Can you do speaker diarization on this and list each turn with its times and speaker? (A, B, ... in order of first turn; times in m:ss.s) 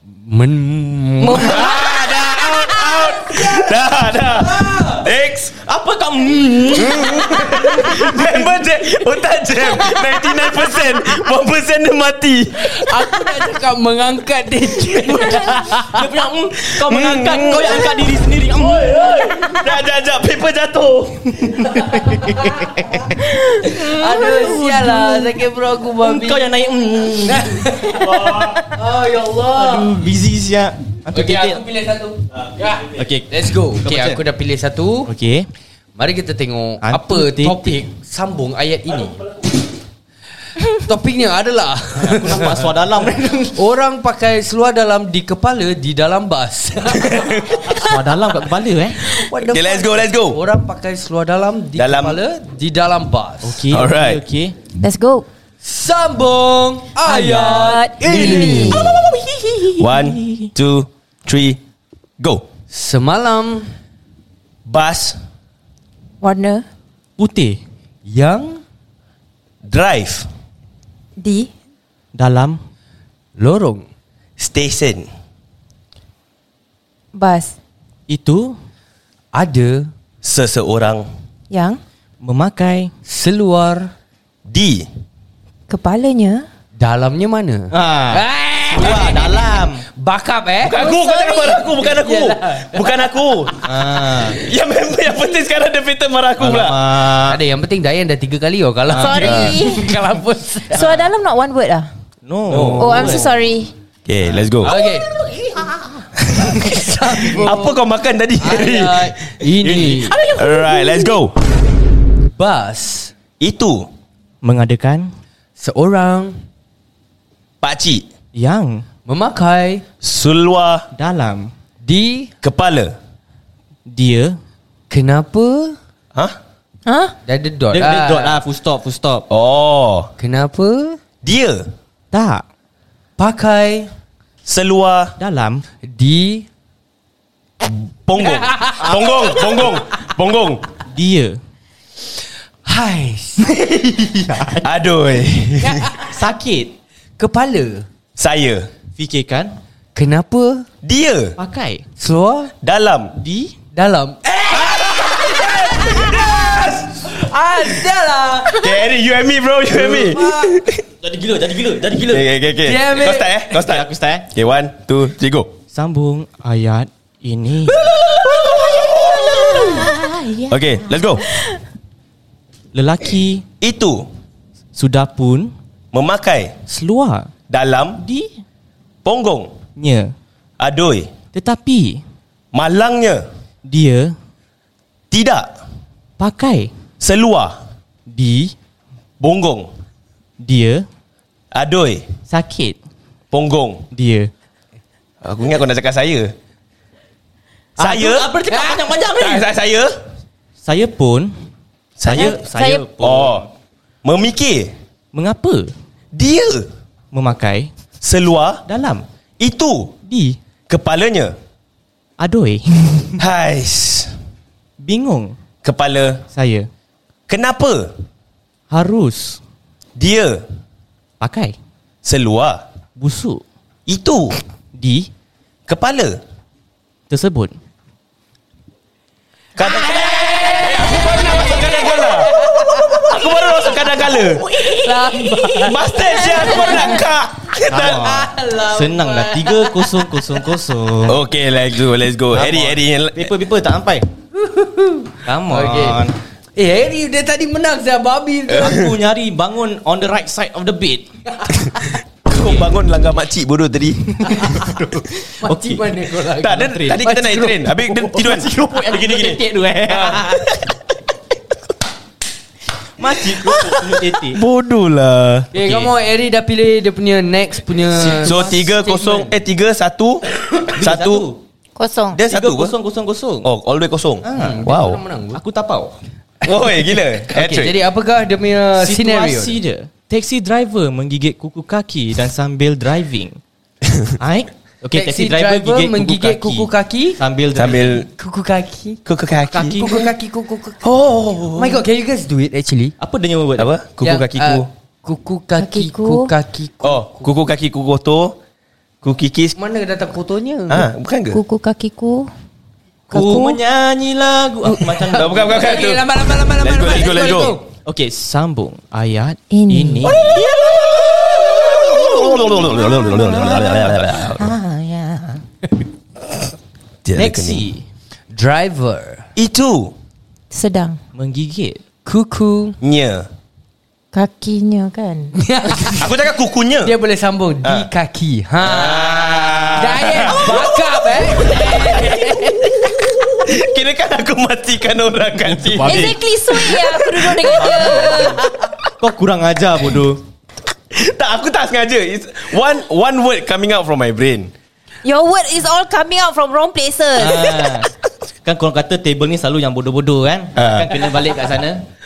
0:00.2-0:05.1 A
0:01.3-0:05.6 B
0:01.4-0:01.8 C
0:05.6-0:08.3 D
0:06.8-0:12.8 B
0:12.6-0:16.0 A
0:15.0-0:19.4 D
0:16.8-0:17.9 B
0:18.7-0:19.3 A
0:19.0-0:22.0 B
0:21.9-0:25.4 D
0:21.9-0:22.5 A
0:23.5-0:23.8 C
0:23.6-0:26.4 A
0:26.0-0:28.3 D
0:27.2-0:30.0 A
0:28.1-0:28.6 B
0:29.5-0:31.6 D
0:31.1-0:35.1 A
0:32.9-0:34.2 D
0:35.1-0:35.4 D
0:36.0-0:39.5 A
0:36.8-0:37.8 D
0:40.7-0:47.6 A
0:42.0-0:43.5 D
0:47.0-0:47.6 B
0:47.7-0:49.0 D
0:49.0-0:53.6 A
0:49.4-0:50.4 B
0:51.8-0:52.2 B
0:53.4-0:54.5 D
0:53.7-0:54.2 B
0:54.8-0:55.2 C
0:55.6-0:59.2 A
0:57.0-0:58.8 C
0:58.3-0:59.0 B
0:59.0-1:00.5 D
0:59.8-1:01.6 B
1:02.2-1:02.4 B
1:02.7-1:03.7 A
1:04.6-1:05.2 B
1:06.2-1:06.6 C
1:07.2-1:07.6 D
1:08.0-1:08.6 A
1:09.6-1:10.3 B
1:11.2-1:11.5 C
1:12.1-1:12.6 D
1:13.4-1:13.8 A
1:14.4-1:15.1 B
1:17.1-1:17.6 C
1:18.1-1:18.6 D
1:19.3-1:19.9 A
1:20.2-1:21.0 B
1:21.5-1:21.8 C
1:22.2-1:22.9 D
1:23.1-1:23.9 A
1:24.4-1:24.9 B
1:25.7-1:26.4 C
1:26.8-1:29.4 A
1:27.7-1:29.8 D
1:30.0-1:33.0 A
1:30.6-1:33.5 B
1:33.6-1:34.4 D
1:34.4-1:36.8 B
1:36.4-1:37.4 D
1:37.3-1:40.9 A
1:38.9-1:39.7 D
1:38.9-1:39.9 C
1:40.7-1:41.9 C
1:42.2-1:43.3 D
1:42.5-1:43.0 B
1:42.5-1:43.0 A
1:42.8-1:43.7 C
1:44.1-1:44.7 B
1:44.6-1:45.2 A
1:46.2-1:46.6 B
1:46.4-1:47.8 A
1:47.3-1:49.1 B
1:48.4-1:50.2 A
1:49.6-1:50.5 D
1:50.3-1:51.4 B
1:52.4-1:53.1 A
1:53.4-1:53.9 B
1:54.4-1:55.1 D
1:55.6-1:56.4 A
1:57.6-1:58.0 B
1:58.3-1:58.8 D
1:59.1-1:59.8 A
2:00.0-2:00.9 B
2:00.9-2:01.5 D
2:01.8-2:02.3 A
2:02.4-2:02.9 B
2:03.9-2:04.4 D
2:04.9-2:05.8 A
2:06.8-2:07.1 C
2:07.2-2:08.4 A
2:07.7-2:09.2 D
2:09.3-2:10.1 B
2:10.2-2:11.0 A
2:11.2-2:11.7 B
2:12.1-2:12.4 D
2:13.2-2:13.9 A
2:14.4-2:15.2 B
2:15.2-2:15.6 D
2:15.8-2:16.4 A
2:17.6-2:20.6 B
2:18.2-2:19.5 A
2:18.8-2:19.3 D
2:20.9-2:21.4 D
2:22.6-2:23.6 A
2:24.0-2:24.6 D
2:24.4-2:25.9 B
2:25.6-2:26.2 A
2:26.0-2:26.7 D
2:27.2-2:27.8 A
2:28.2-2:28.7 B
2:29.0-2:29.5 D
2:29.9-2:30.6 A
2:30.8-2:31.4 B
2:31.4-2:31.8 D
2:32.0-2:32.5 A
2:32.6-2:33.1 B
2:33.2-2:33.5 D
2:33.7-2:38.8 A
2:36.0-2:36.5 B
2:38.6-2:40.8 B
2:39.7-2:40.6 A
2:41.0-2:42.2 D
2:42.1-2:45.5 B
2:42.6-2:43.5 A
2:43.5-2:44.2 D
2:45.7-2:47.9 D
2:47.7-2:49.9 B
2:48.7-2:50.7 D
2:50.5-2:51.2 B
2:52.7-2:53.4 D
2:53.6-2:54.1 B
2:54.7-2:55.5 D
2:55.9-2:56.6 B
2:56.7-2:57.3 D
2:57.5-2:58.0 B
2:58.0-2:58.4 D
2:59.0-2:59.5 B
2:59.8-3:00.1 D
3:00.6-3:01.1 B
3:01.3-3:02.0 D
3:02.5-3:03.2 B
3:03.6-3:04.1 D
3:05.1-3:05.5 B
3:06.2-3:06.7 D
3:07.0-3:07.6 B
3:08.1-3:08.5 D
3:09.2-3:09.7 B
3:10.4-3:10.8 D
3:11.5-3:12.0 B
3:12.3-3:12.8 D
3:13.3-3:13.8 B
3:13.9-3:14.3 D
3:15.2-3:16.3 B
3:17.8-3:19.5 D
3:17.8-3:18.4 B
3:18.5-3:18.9 A
3:19.2-3:19.9 B
3:20.6-3:21.3 D
3:22.0-3:23.4 B
3:22.0-3:23.5 D
3:22.1-3:22.8 C
3:24.0-3:24.7 B
3:25.1-3:25.7 D
3:26.1-3:26.7 B
3:27.1-3:27.7 D
3:28.0-3:28.6 B
3:28.7-3:29.0 D
3:29.4-3:29.9 B
3:30.0-3:30.4 D
3:30.7-3:31.3 B
3:32.2-3:33.2 D
3:33.2-3:34.1 B
3:34.8-3:35.4 D
3:35.6-3:36.2 B
3:36.3-3:36.7 D
3:37.3-3:38.0 B
3:38.7-3:39.4 D
3:40.0-3:40.4 B
3:41.2-3:41.6 D
3:42.0-3:42.6 B
3:43.0-3:43.4 D
3:43.8-3:44.4 B
3:44.7-3:45.1 D
3:45.7-3:46.2 B
3:47.1-3:47.6 D
3:49.6-3:54.4 B
3:49.6-3:53.1 A
3:54.4-3:55.7 D
3:54.5-3:57.0 A
3:55.6-3:58.2 B
3:57.7-4:01.2 D
3:57.8-4:00.6 A
4:01.0-4:03.3 B
4:02.3-4:04.0 D
4:04.4-4:08.8 A
4:05.2-4:06.1 D
4:08.5-4:08.9 B
4:08.5-4:11.1 D
4:12.3-4:14.3 B
4:14.2-4:16.0 D
4:14.3-4:18.4 A
4:16.4-4:20.7 B
4:18.1-4:20.4 D
4:23.0-4:24.4 D
4:23.4-4:25.5 B
4:25.5-4:29.4 A
4:25.6-4:25.9 D
4:28.0-4:28.6 D
4:28.1-4:30.2 B
4:30.8-4:31.3 B
4:30.8-4:31.4 D
4:31.8-4:32.2 C
4:32.1-4:32.7 B
4:32.2-4:33.5 D
4:33.4-4:35.0 B
4:34.2-4:34.6 D
4:34.3-4:35.4 A
4:35.3-4:36.0 D
4:36.4-4:37.8 B
4:37.3-4:39.6 A
4:38.7-4:43.4 D
4:44.2-4:48.0 D
4:44.9-4:47.2 A
4:47.5-4:48.1 B
4:48.0-4:49.0 A
4:49.0-4:49.9 B
4:49.5-4:50.1 D
4:49.7-4:50.9 A
4:50.8-4:51.8 B
4:51.5-4:53.0 A
4:53.0-4:53.7 D
4:53.6-4:54.7 B
4:54.0-4:57.3 A
4:55.6-4:56.3 C
4:56.8-4:58.4 B
4:59.0-4:59.6 B
4:59.6-5:00.9 A
5:00.7-5:01.4 B
5:01.3-5:02.3 C
5:03.1-5:05.9 D
5:03.1-5:03.6 C
5:04.6-5:07.6 A
5:05.1-5:06.0 B
5:06.6-5:07.6 B
5:07.8-5:10.4 D
5:09.5-5:10.2 C
5:10.0-5:14.5 B
5:13.0-5:15.4 D
5:17.0-5:17.7 B
5:17.2-5:17.8 D
5:18.3-5:19.2 A
5:19.4-5:19.9 B
5:20.5-5:21.0 C
5:21.1-5:21.8 D
5:22.0-5:22.8 A
5:22.8-5:23.3 B
5:24.1-5:25.4 C
5:25.4-5:26.2 A
5:25.9-5:26.9 B
5:26.8-5:32.9 A
5:28.6-5:30.4 D
5:29.0-5:38.7 B
5:35.4-5:36.2 D
5:35.8-5:38.4 C
5:37.4-5:38.4 D
5:39.0-5:40.2 D
5:40.9-5:44.5 B
5:45.0-5:47.6 C
5:47.2-5:47.9 D
5:48.4-5:51.8 D
5:50.6-5:51.1 B